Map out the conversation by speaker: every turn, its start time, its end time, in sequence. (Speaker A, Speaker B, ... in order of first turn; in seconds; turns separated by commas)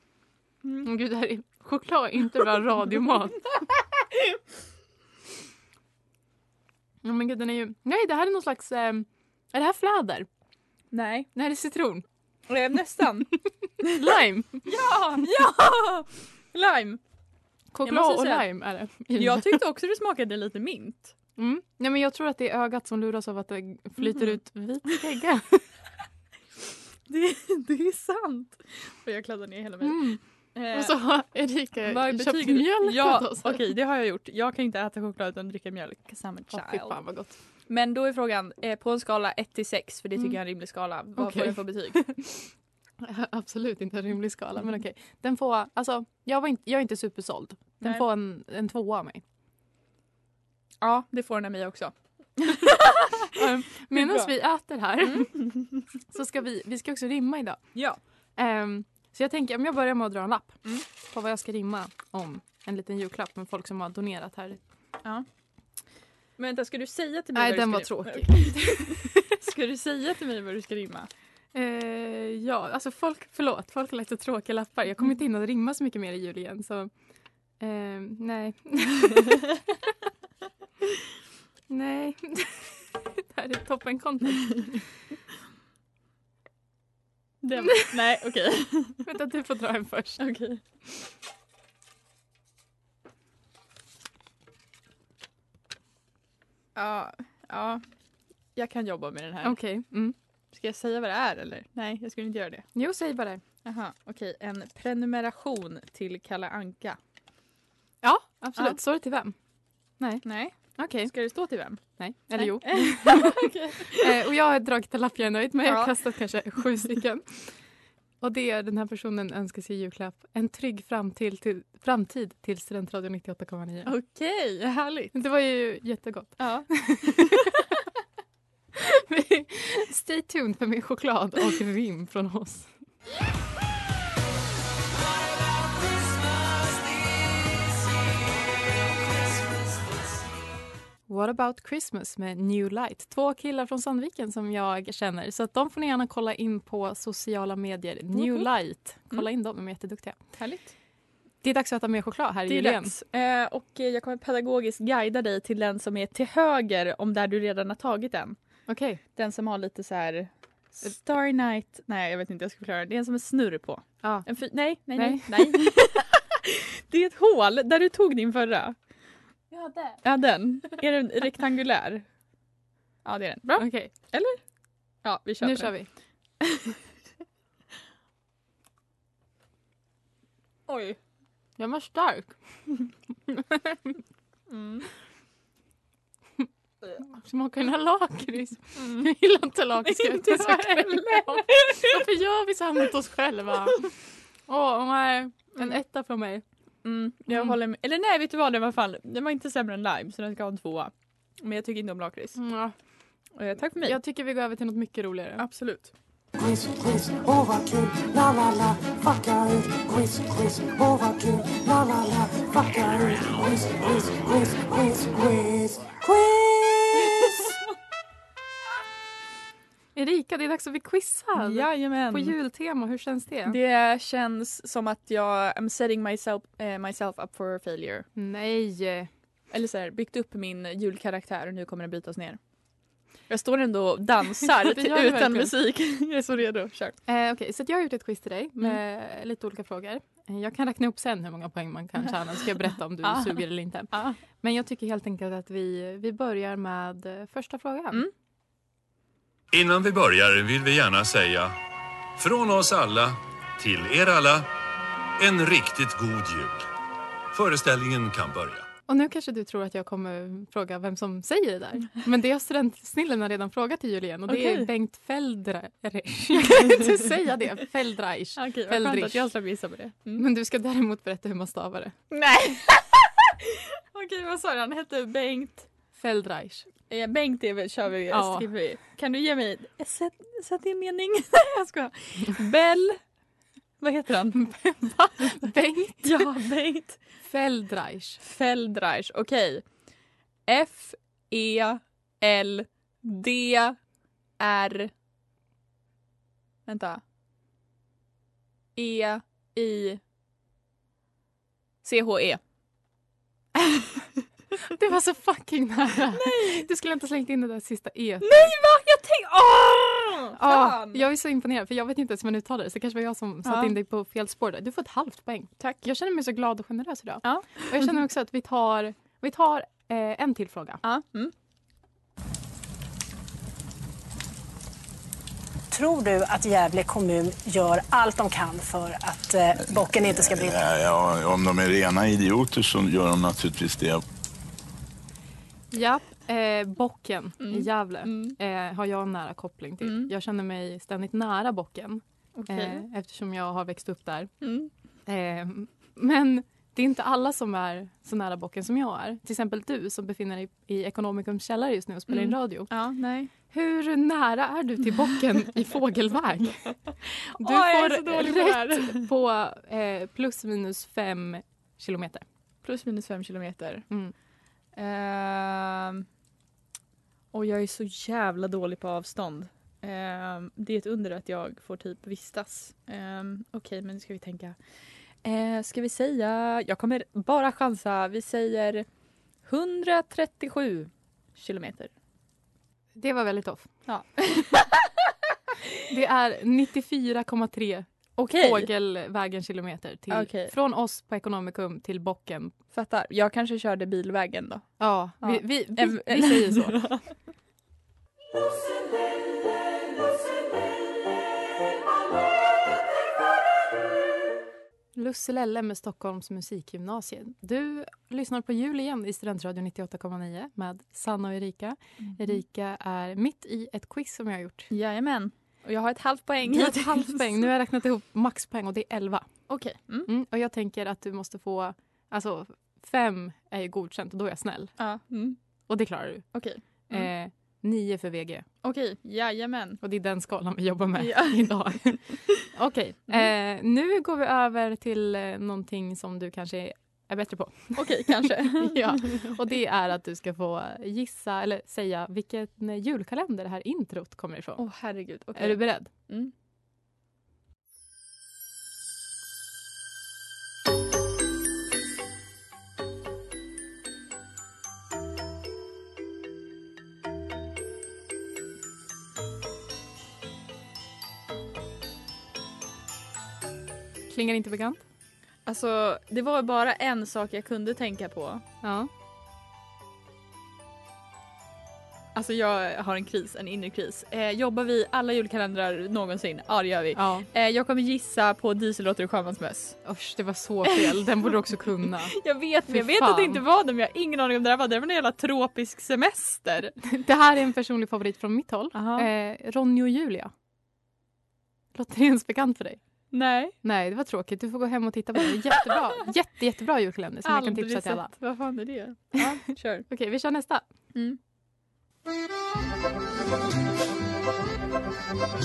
Speaker A: 0.8-3.5, Speaker A: 7.0-10.3, Speaker B: 10.9-11.3, Speaker A: 11.3-12.1, Speaker B: 12.5-13.9, Speaker A: 13.8-14.7, Speaker B: 14.6-17.0, Speaker A: 17.7-19.6, Speaker B: 17.8-18.5, Speaker B: 19.1-21.1, Speaker A: 21.4-25.6, Speaker B: 27.1-31.0, Speaker A: 29.8-30.2, Speaker A: 30.7-33.7, Speaker B: 31.8-37.0, Speaker A: 36.5-37.3, Speaker B: 37.7-42.1, Speaker A: 41.2-42.3, Speaker A: 43.0-49.2, Speaker B: 50.8-53.4, Speaker A: 53.3-55.4, Speaker B: 53.9-54.3, Speaker B: 55.0-55.8, Speaker A: 56.1-57.6, Speaker A: 58.4-64.6, Speaker B: 66.4-71.1, Speaker A: 67.3-69.4, Speaker A: 71.5-76.9, Speaker A: 77.6-79.6, Speaker A: 81.7-84.8, Speaker B: 87.4-89.0, Speaker A: 89.0-90.3, Speaker B: 90.2-90.6, Speaker B: 96.7-97.8, Speaker B: 98.5-99.6, Speaker A: 99.4-100.2, Speaker B: 100.5-102.7, Speaker A: 102.7-103.4, Speaker B: 103.6-107.0, Speaker A: 108.0-109.3, Speaker A: 110.0-111.1, Speaker B: 110.2-111.8, Speaker A: 112.0-117.5, Speaker B: 112.3-114.1, Speaker B: 115.6-115.9, Speaker A: 118.2-123.9, Speaker B: 123.8-125.1, Speaker A: 125.1-127.7, Speaker B: 126.4-127.6, Speaker A: 128.7-132.7, Speaker A: 141.1-150.2, Speaker B: 148.1-148.5, Speaker B: 150.4-150.7, Speaker A: 151.4-152.9, Speaker B: 152.5-158.4, Speaker A: 158.7-159.0, Speaker B: 159.2-168.8, Speaker A: 164.0-164.3, Speaker A: 164.9-165.7, Speaker A: 169.5-170.0, Speaker B: 170.0-172.0, Speaker B: 173.0-174.4, Speaker A: 173.6-173.9, Speaker B: 175.0-175.7, Speaker A: 175.4-175.9, Speaker B: 176.4-176.8, Speaker B: 180.7-181.0, Speaker A: 181.6-182.3, Speaker A: 183.3-183.8, Speaker B: 184.5-184.9, Speaker A: 187.0-193.8, Speaker B: 188.7-189.1, Speaker B: 189.8-192.0, Speaker A: 194.5-196.4, Speaker B: 196.8-202.4, Speaker A: 197.3-197.6, Speaker A: 202.3-202.7, Speaker B: 203.3-204.0, Speaker A: 203.8-205.4, Speaker B: 205.4-205.9, Speaker C: 206.4-217.2, Speaker A: 219.9-223.6, Speaker B: 221.4-222.3, Speaker B: 223.4-228.1, Speaker A: 228.2-229.1, Speaker B: 229.5-232.4, Speaker B: 233.3-237.0, Speaker A: 234.4-235.5, Speaker A: 237.1-248.1, Speaker B: 243.0-244.2, Speaker D: 249.5-251.5, Speaker D: 252.2-254.5, Speaker D: 255.2-256.6, Speaker D: 257.3-258.6, Speaker A: 258.9-269.3, Speaker B: 264.3-264.7, Speaker B: 266.5-266.9, Speaker B: 268.4-270.2, Speaker A: 270.1-271.9, Speaker B: 272.1-275.7, Speaker A: 275.9-276.7, Speaker B: 276.9-283.0, Speaker A: 278.1-278.5, Speaker B: 283.8-284.5, Speaker A: 284.3-286.3, Speaker B: 286.0-287.0, Speaker A: 287.2-288.2, Speaker B: 288.2-289.6, Speaker B: 290.5-293.8, Speaker B: 294.4-294.9, Speaker B: 296.7-297.0, Speaker B: 298.8-300.0, Speaker B: 301.8-302.4, Speaker A: 304.6-308.5, Speaker B: 306.1-306.6, Speaker B: 308.2-311.0, Speaker A: 310.3-320.8, Speaker B: 313.4-313.7, Speaker B: 315.6-315.8, Speaker B: 317.2-317.9, Speaker B: 320.8-321.3, Speaker E: 325.7-330.6, Speaker F: 330.0-334.0, Speaker A: 335.7-344.3, Speaker B: 337.4-338.4, Speaker B: 339.8-340.1, Speaker B: 342.4-342.8, Speaker B: 344.4-344.7, Speaker A: 345.1-352.7, Speaker B: 352.1-353.3, Speaker A: 353.5-362.2, Speaker B: 357.4-359.1, Speaker B: 362.6-363.8, Speaker B: 364.7-366.1, Speaker B: 367.3-374.6, Speaker B: 375.2-378.9, Speaker B: 379.4-381.9, Speaker A: 382.9-383.7, Speaker B: 383.9-384.9, Speaker A: 385.9-392.5, Speaker B: 388.2-388.7, Speaker B: 390.1-390.5, Speaker B: 392.7-394.7, Speaker A: 394.8-396.9, Speaker B: 395.2-397.1, Speaker A: 404.9-414.7, Speaker B: 414.7-417.4, Speaker A: 416.4-419.3, Speaker B: 419.5-420.1, Speaker A: 420.1-424.7, Speaker B: 424.8-425.4, Speaker A: 425.7-426.3, Speaker B: 426.3-427.1, Speaker A: 426.9-428.4, Speaker B: 428.6-429.8, Speaker A: 429.8-444.6, Speaker B: 430.9-431.5, Speaker B: 437.8-439.3, Speaker B: 444.6-446.3, Speaker A: 445.3-445.9, Speaker A: 464.1-464.8, Speaker B: 465.4-468.4, Speaker A: 468.6-468.9, Speaker B: 472.1-479.8, Speaker A: 476.9-477.3, Speaker A: 479.8-483.4, Speaker B: 480.7-481.3, Speaker B: 481.8-486.8, Speaker A: 486.8-490.3, Speaker B: 488.7-489.1, Speaker A: 491.7-492.8, Speaker B: 493.1-493.5, Speaker A: 493.6-498.1, Speaker B: 497.2-499.9, Speaker A: 499.9-500.6, Speaker B: 500.9-501.2